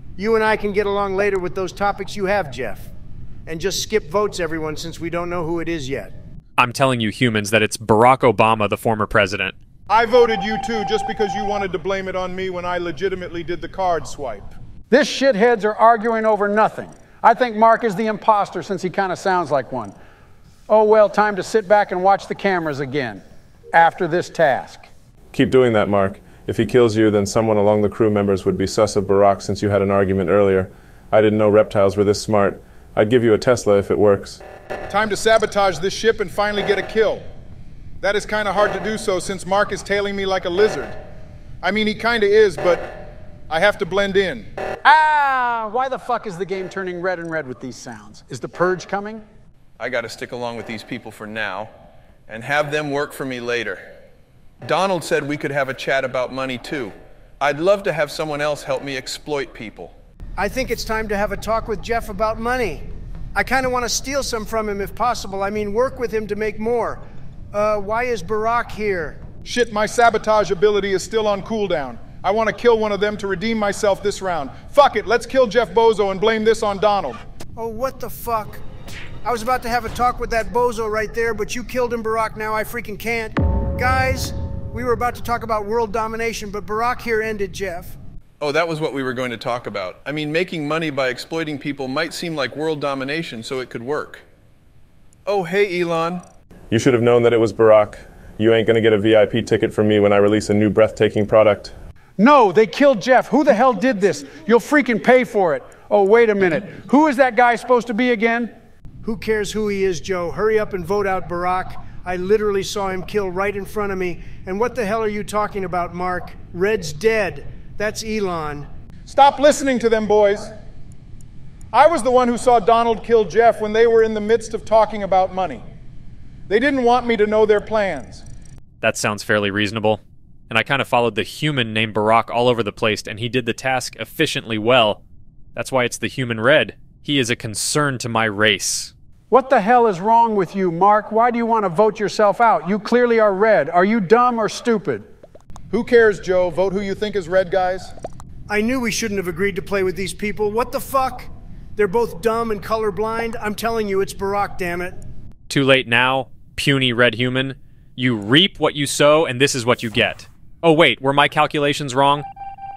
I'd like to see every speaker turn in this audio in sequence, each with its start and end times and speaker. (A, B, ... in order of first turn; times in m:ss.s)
0:00.2-0:02.9 A
0:03.4-0:06.1 A
0:06.6-0:09.5 B
0:09.9-0:14.5 C
0:14.9-0:19.9 D
0:20.7-0:23.2 D
0:23.7-0:24.9 D
0:25.3-0:34.4 E
0:34.9-0:37.2 C
0:38.0-0:40.9 C
0:41.6-0:43.0 C
0:43.5-0:44.5 C
0:44.8-0:49.2 D
0:49.8-0:51.7 F
0:52.3-0:53.8 F
0:54.6-0:59.9 F
1:00.4-1:07.0 A
1:07.5-1:09.3 A
1:09.4-1:17.2 C
1:17.6-1:18.6 A
1:19.2-1:28.0 A
1:28.4-1:34.2 F
1:35.2-1:36.2 F
1:36.7-1:41.7 E
1:42.2-1:48.5 D
1:49.0-1:58.7 A
1:59.1-2:00.5 C
2:01.7-2:05.6 C
2:06.5-2:08.2 C
2:08.8-2:15.0 B
2:15.5-2:18.9 B
2:19.3-2:25.0 D
2:25.7-2:27.9 C
2:28.5-2:34.9 A
2:35.5-2:42.2 B